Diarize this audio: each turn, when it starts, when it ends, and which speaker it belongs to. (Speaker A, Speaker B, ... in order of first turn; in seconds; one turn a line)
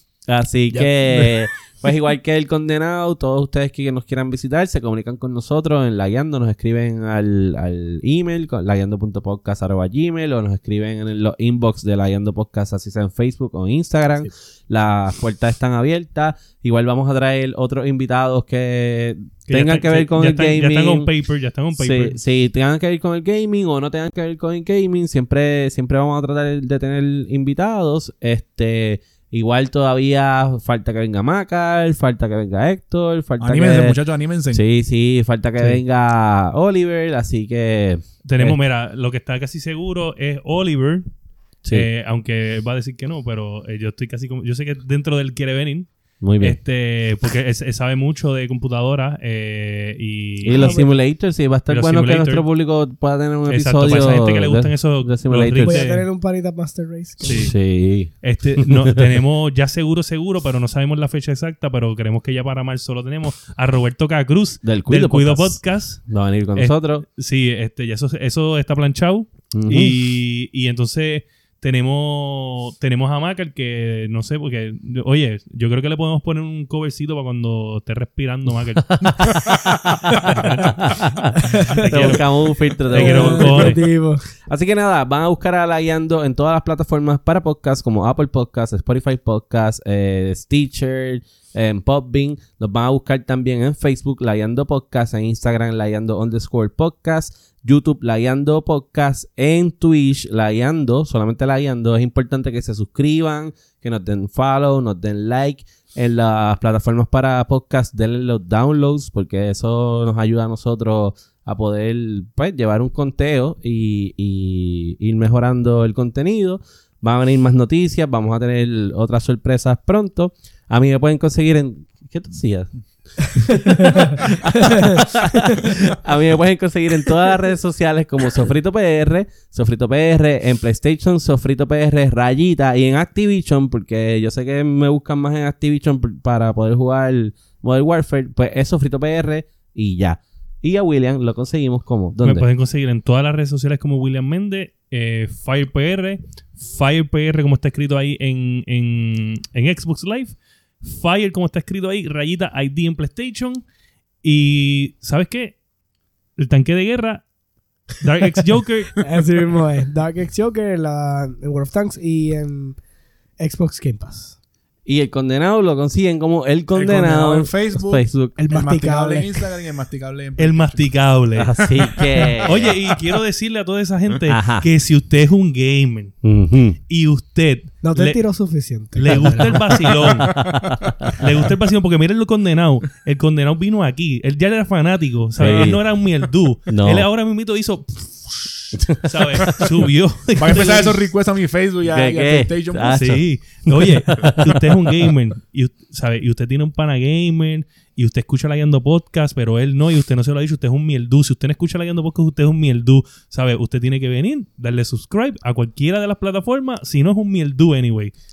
Speaker A: 0.3-21.1
Speaker B: 0.7-1.4
Speaker C: 19.5-22.2
Speaker A: 21.7-34.0
Speaker B: 33.4-34.6
Speaker A: 34.5-38.6
Speaker C: 38.2-41.1
Speaker C: 41.7-50.8
Speaker A: 46.2-46.6
Speaker A: 50.4-55.8
Speaker D: 50.5-50.9
Speaker C: 51.7-52.4
Speaker C: 53.5-56.0
Speaker D: 55.6-57.5
Speaker C: 57.2-57.5
Speaker A: 57.2-59.2
Speaker C: 58.2-66.0
Speaker A: 64.6-67.0
Speaker C: 66.5-79.4
Speaker A: 69.5-70.0
Speaker A: 78.9-83.8
Speaker C: 80.1-81.0
Speaker D: 81.4-82.2
Speaker C: 81.7-82.3
Speaker C: 82.9-83.8
Speaker D: 82.9-84.2
Speaker A: 84.5-122.7
Speaker A: 123.3-142.4
Speaker D: 123.4-123.9
Speaker C: 142.2-153.6
Speaker C: 154.2-155.6
Speaker C: 156.4-157.2
Speaker C: 158.0-159.1
Speaker D: 159.0-162.8
Speaker D: 163.4-164.3
Speaker A: 164.8-168.3
Speaker B: 166.7-171.0
Speaker D: 168.4-169.5
Speaker C: 170.4-171.6
Speaker A: 171.3-172.8
Speaker B: 171.6-172.3
Speaker C: 172.4-176.1
Speaker A: 174.3-174.7
Speaker A: 176.2-176.8
Speaker C: 176.9-178.2
Speaker D: 177.8-179.6
Speaker C: 178.9-180.5
Speaker A: 179.1-181.3
Speaker C: 181.1-191.1
Speaker A: 185.4-185.8
Speaker A: 186.7-187.1
Speaker A: 189.2-189.7
Speaker B: 190.4-193.2
Speaker A: 191.8-195.1
Speaker C: 192.9-208.1